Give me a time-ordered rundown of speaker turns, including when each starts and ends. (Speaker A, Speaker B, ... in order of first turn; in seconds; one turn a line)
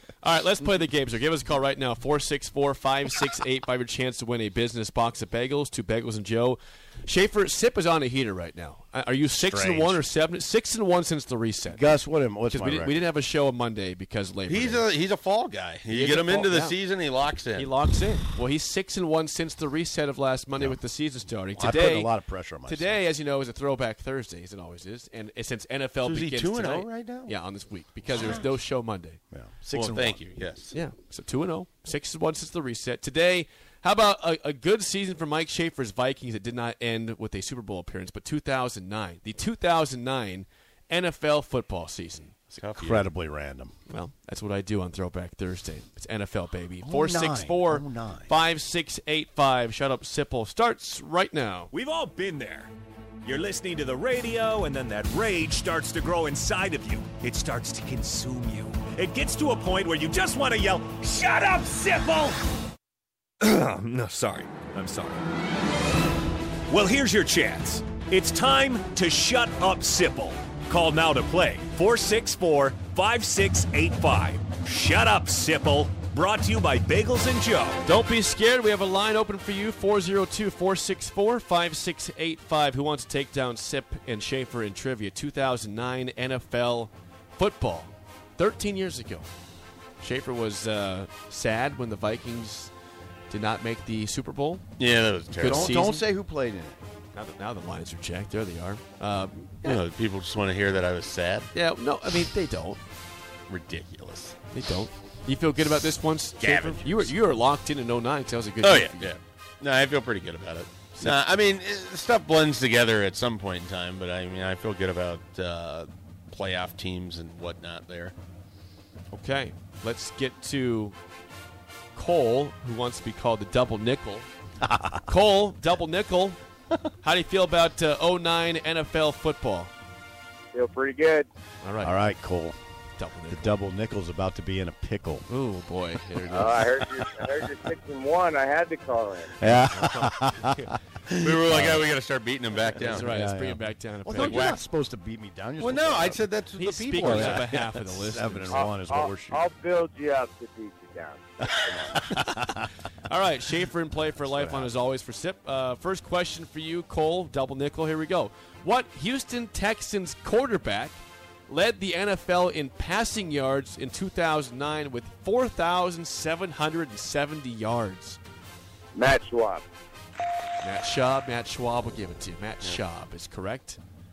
Speaker A: 0.2-11.9
Speaker B: 9.3-10.0
Speaker B: 11.7-13.0
Speaker A: 12.4-14.9
Speaker C: 14.5-17.7
Speaker A: 15.9-16.8
Speaker A: 17.6-22.1
Speaker B: 21.6-23.1
Speaker A: 22.7-29.2
Speaker C: 26.0-27.4
Speaker C: 28.1-28.4
Speaker B: 29.3-30.2
Speaker C: 29.7-30.7
Speaker A: 30.7-42.4
Speaker C: 42.5-43.1
Speaker B: 42.6-43.8
Speaker A: 43.9-51.7
Speaker B: 46.8-48.3
Speaker D: 51.7-52.7
Speaker D: 53.2-62.4
Speaker D: 63.4-65.2
Speaker D: 66.7-77.8
Speaker A: 77.8-89.3
Speaker A: 90.0-92.7
Speaker A: 93.3-94.6
Speaker C: 94.8-95.8
Speaker A: 95.4-96.0
Speaker B: 95.4-96.8
Speaker A: 97.1-99.8
Speaker C: 99.6-101.5
Speaker A: 101.5-102.8
Speaker C: 103.5-104.4
Speaker A: 104.5-109.1
Speaker C: 106.4-107.1
Speaker C: 108.6-118.1
Speaker A: 119.1-121.0
Speaker A: 122.0-124.3
Speaker B: 124.6-125.0
Speaker A: 125.1-126.4
Speaker A: 127.0-129.7
Speaker E: 130.5-131.3
Speaker A: 131.6-132.0
Speaker B: 131.8-132.6
Speaker A: 133.0-133.6
Speaker B: 133.3-135.3
Speaker A: 135.3-137.1
Speaker E: 136.3-139.4
Speaker B: 139.3-140.7
Speaker A: 139.4-140.7
Speaker C: 141.1-143.1
Speaker B: 141.4-141.9
Speaker A: 142.8-144.6
Speaker B: 142.8-146.3
Speaker C: 144.1-144.6
Speaker C: 145.6-147.7
Speaker A: 146.6-148.7
Speaker B: 147.0-149.5
Speaker E: 148.5-152.0
Speaker B: 151.4-152.7
Speaker A: 153.1-161.0
Speaker B: 154.2-154.7
Speaker A: 161.5-168.2
Speaker E: 168.9-169.7
Speaker A: 170.6-173.8